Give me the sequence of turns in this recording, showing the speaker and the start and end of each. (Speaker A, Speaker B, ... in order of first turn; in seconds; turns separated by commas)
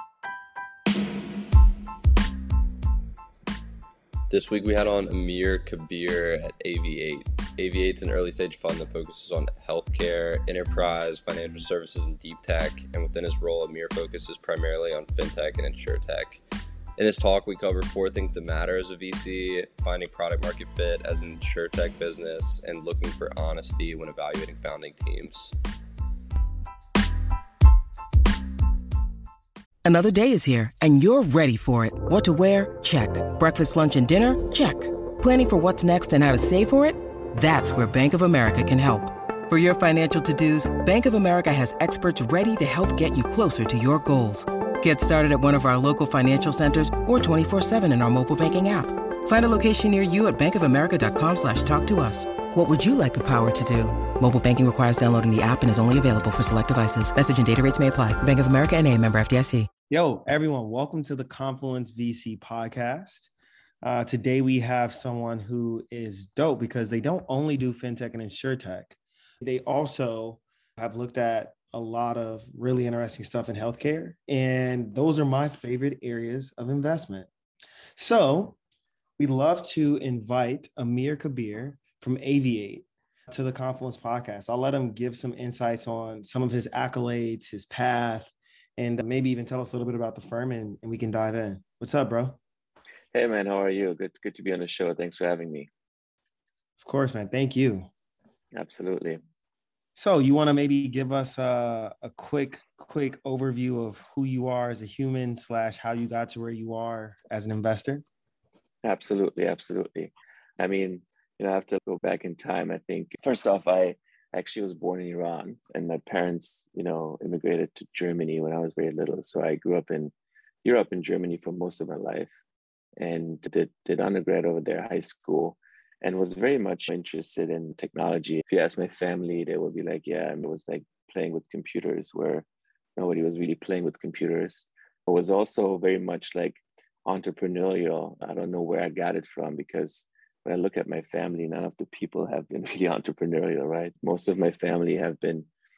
Speaker A: 4.3-16.4, Speaker A: 17.0-25.5, Speaker B: 29.8-59.7, Speaker C: 59.9-63.3, Speaker C: 63.8-77.3, Speaker C: 78.0-78.6, Speaker C: 79.2-92.4, Speaker D: 93.1-95.7, Speaker C: 96.8-97.9, Speaker D: 98.5-99.2, Speaker C: 100.0-108.0, Speaker D: 108.8-120.1, Speaker D: 120.6-122.3, Speaker D: 123.0-132.4, Speaker D: 133.0-145.5